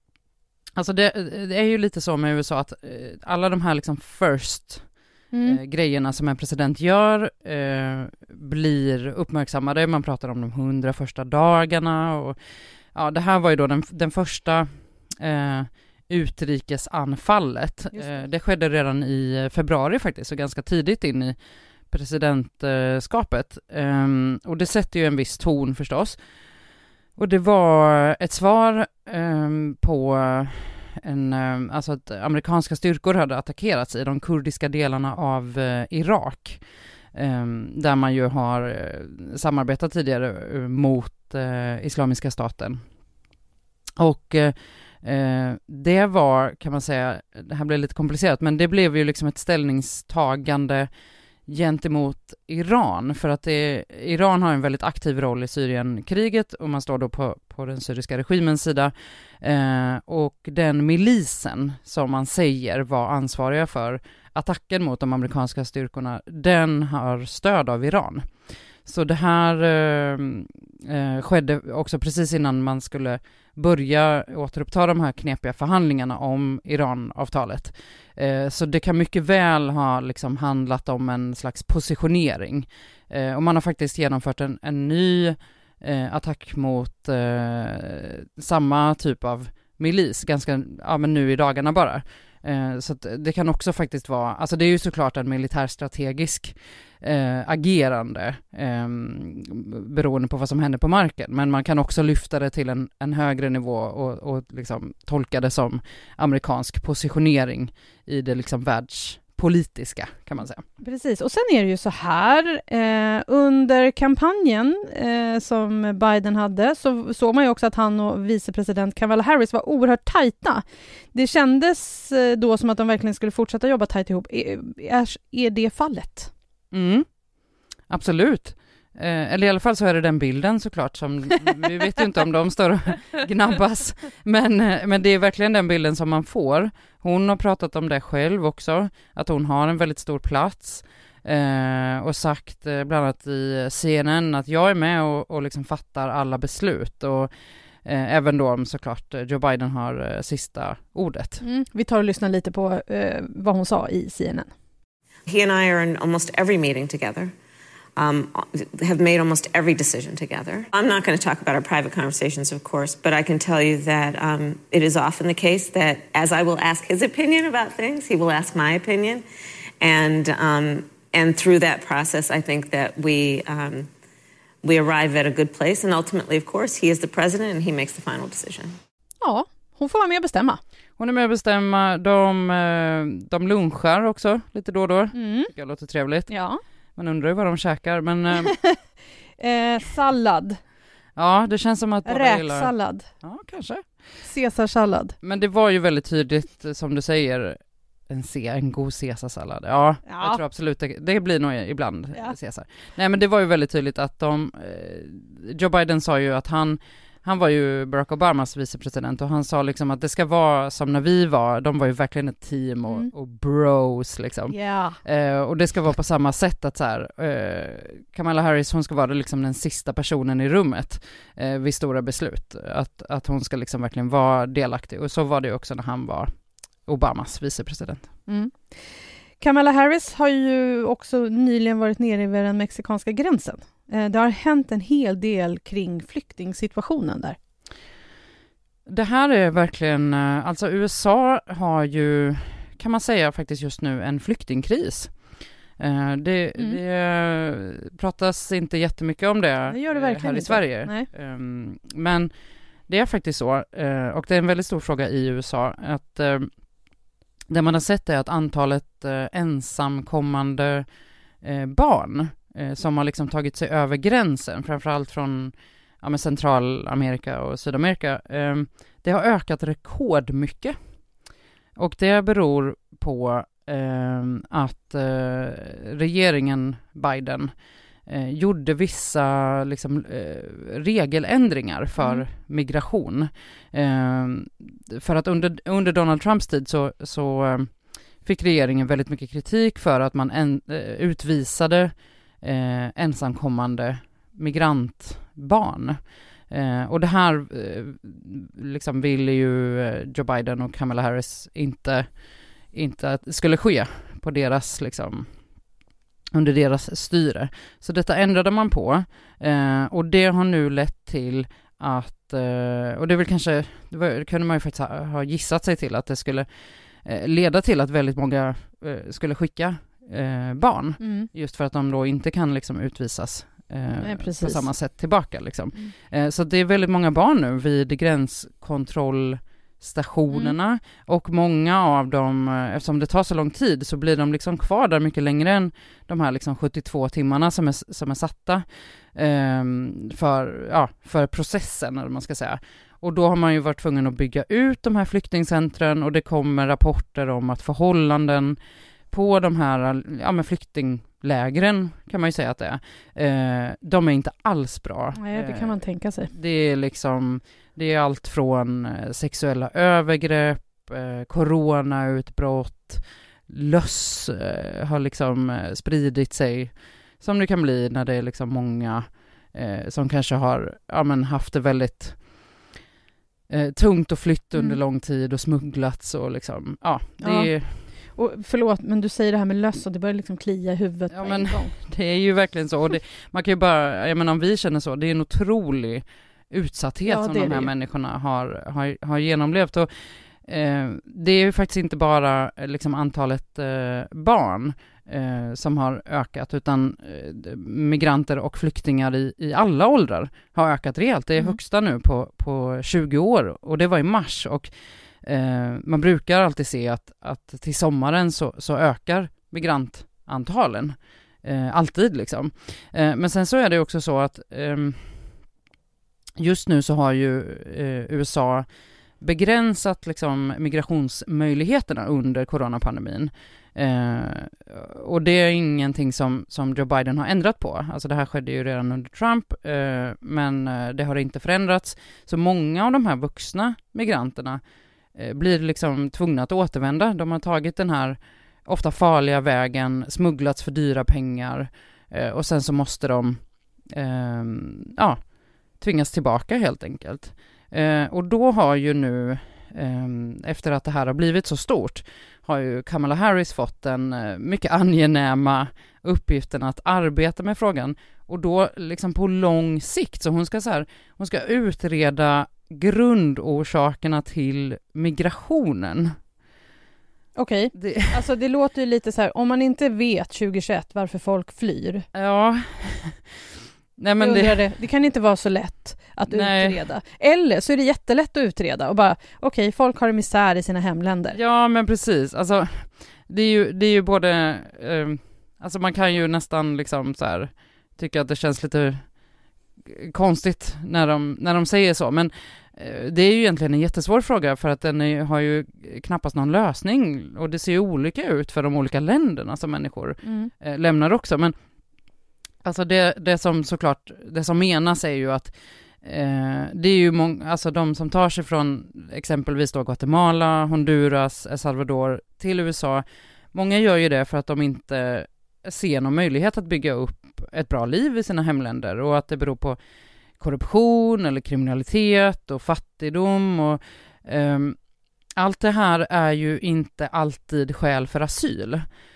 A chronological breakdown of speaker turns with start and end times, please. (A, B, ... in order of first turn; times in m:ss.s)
0:00.8-0:04.8 A
0:05.3-0:05.6 B
0:05.4-0:12.4 A
0:12.9-0:21.4 A
0:17.9-0:18.2 B
0:21.9-0:26.2 A
0:27.2-0:36.6 A
0:37.1-0:42.8 A
0:44.0-0:50.9 A
0:51.5-1:08.3 A
1:08.8-1:50.6 A
1:50.8-2:06.3 B
2:06.7-2:07.1 A
2:07.9-2:27.3 A
2:27.8-2:31.4 A
2:31.4-2:34.5 B
2:35.3-2:37.3 C
2:38.0-2:49.2 C
2:49.8-2:53.9 C
2:54.6-2:58.8 C
2:59.2-3:00.6 B
3:01.0-3:06.3 A
3:05.1-3:05.5 B
3:06.3-3:06.6 B
3:07.0-3:08.6 A
3:09.4-3:10.6 B
3:11.2-3:13.9 A
3:12.1-3:13.1 B
3:14.2-3:15.2 B
3:15.2-3:46.3 A
3:20.1-3:20.4 B
3:34.5-3:35.0 B
3:46.9-3:48.1 A
3:48.3-3:48.8 B
3:49.4-3:57.4 B
3:58.9-4:05.2 A
4:05.8-4:12.3 A
4:09.7-4:11.1 B
4:12.9-4:16.5 A
4:17.5-4:20.9 A
4:21.4-4:30.8 A
4:31.8-4:37.5 A
4:38.1-5:02.1 A
4:42.0-4:42.2 B
5:02.7-5:05.3 A
5:06.3-5:16.5 A
5:17.0-5:48.6 A
5:21.0-5:21.3 B
5:24.0-5:24.7 B
5:49.1-6:12.2 A
5:55.2-5:56.3 B
6:13.5-6:17.8 A
6:17.2-6:17.5 B
6:18.2-6:21.7 B
6:21.1-6:44.7 A
6:27.0-6:27.7 B
6:45.2-6:55.2 A
6:56.4-6:58.7 A
6:59.2-7:14.6 A
7:15.2-7:25.2 A
7:25.8-7:46.2 A
7:47.4-7:52.1 B
7:47.7-7:48.2 A
7:52.1-7:53.3 A
7:54.0-7:54.7 A
7:54.2-8:01.4 B
7:56.3-7:56.8 A
8:01.3-8:09.1 A
8:09.8-8:21.6 A
8:20.2-8:20.5 B
8:22.6-8:39.8 A
8:40.4-8:44.8 A
8:45.4-8:48.9 A